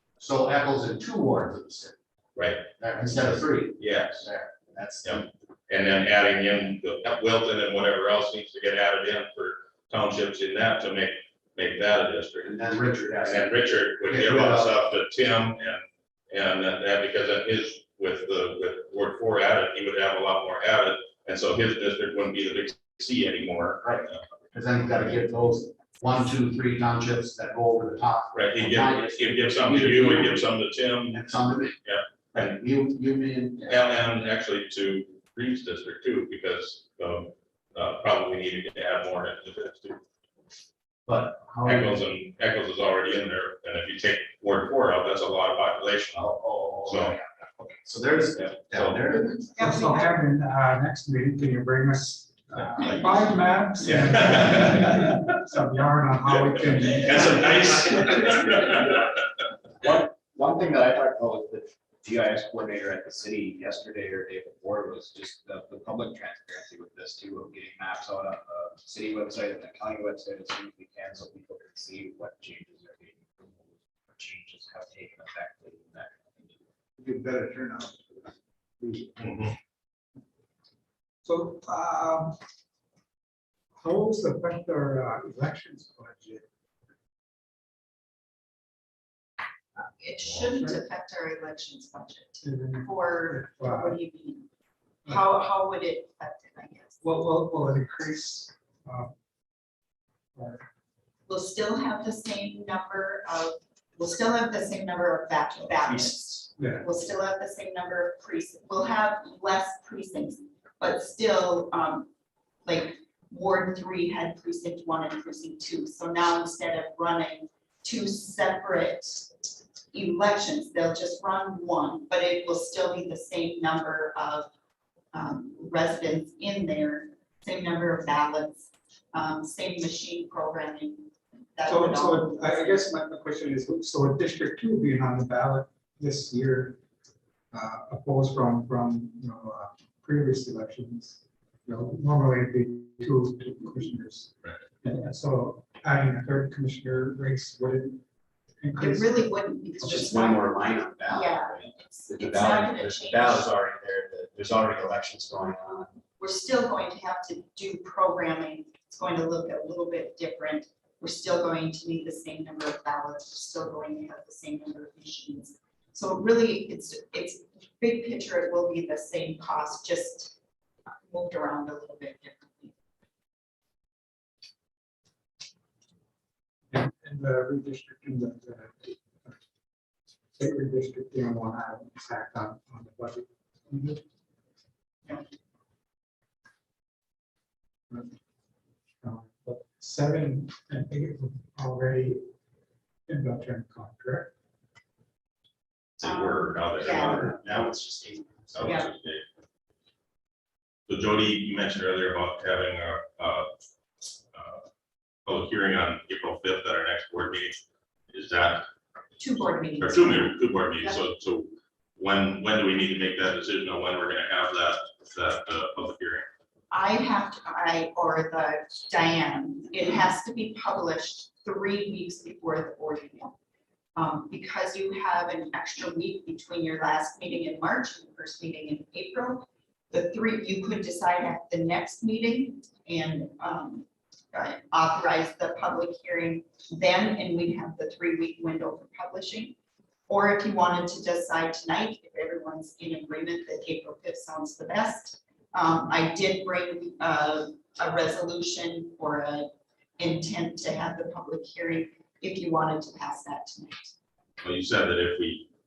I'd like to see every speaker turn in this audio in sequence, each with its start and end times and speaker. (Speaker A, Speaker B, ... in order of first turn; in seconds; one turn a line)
Speaker A: 0.2-1.9
Speaker B: 2.3-2.6
Speaker A: 2.8-5.2
Speaker B: 3.8-4.2
Speaker B: 5.0-12.5
Speaker A: 12.4-14.7
Speaker B: 13.2-24.2
Speaker A: 23.8-30.4
Speaker B: 28.3-31.2
Speaker A: 31.1-31.8
Speaker B: 31.8-32.5
Speaker A: 32.3-33.8
Speaker B: 33.7-40.0
Speaker A: 41.0-42.0
Speaker B: 41.6-46.2
Speaker A: 46.1-49.4
Speaker B: 46.9-47.1
Speaker B: 48.7-49.1
Speaker C: 49.4-50.2
Speaker D: 49.6-58.3
Speaker B: 57.1-58.1
Speaker E: 59.8-76.6
Speaker D: 77.0-79.3
Speaker B: 79.2-79.5
Speaker D: 81.2-82.4
Speaker D: 83.8-86.5
Speaker C: 89.8-94.5
Speaker D: 92.4-94.0
Speaker C: 95.0-97.0
Speaker D: 97.0-99.1
Speaker D: 100.3-100.7
Speaker C: 101.3-112.1
Speaker D: 106.6-106.8
Speaker C: 112.6-119.3
Speaker C: 119.9-124.5
Speaker C: 125.1-132.8
Speaker D: 131.7-136.8
Speaker D: 137.5-148.0
Speaker D: 148.6-149.2
Speaker C: 148.8-153.5
Speaker E: 149.8-155.9
Speaker A: 149.8-151.3
Speaker A: 152.2-155.8
Speaker C: 156.2-170.3
Speaker C: 170.9-172.7
Speaker D: 176.7-179.4
Speaker D: 180.3-184.0
Speaker D: 187.9-188.1
Speaker D: 189.0-192.2
Speaker D: 193.1-194.3
Speaker B: 196.0-197.6
Speaker C: 196.0-197.3
Speaker A: 197.0-198.8
Speaker B: 198.5-199.2
Speaker B: 200.9-203.5
Speaker B: 204.3-204.6
Speaker B: 205.2-208.7
Speaker C: 209.2-211.0
Speaker B: 209.8-216.3
Speaker C: 216.7-223.3
Speaker C: 223.9-239.5
Speaker C: 240.1-253.9
Speaker B: 254.4-255.4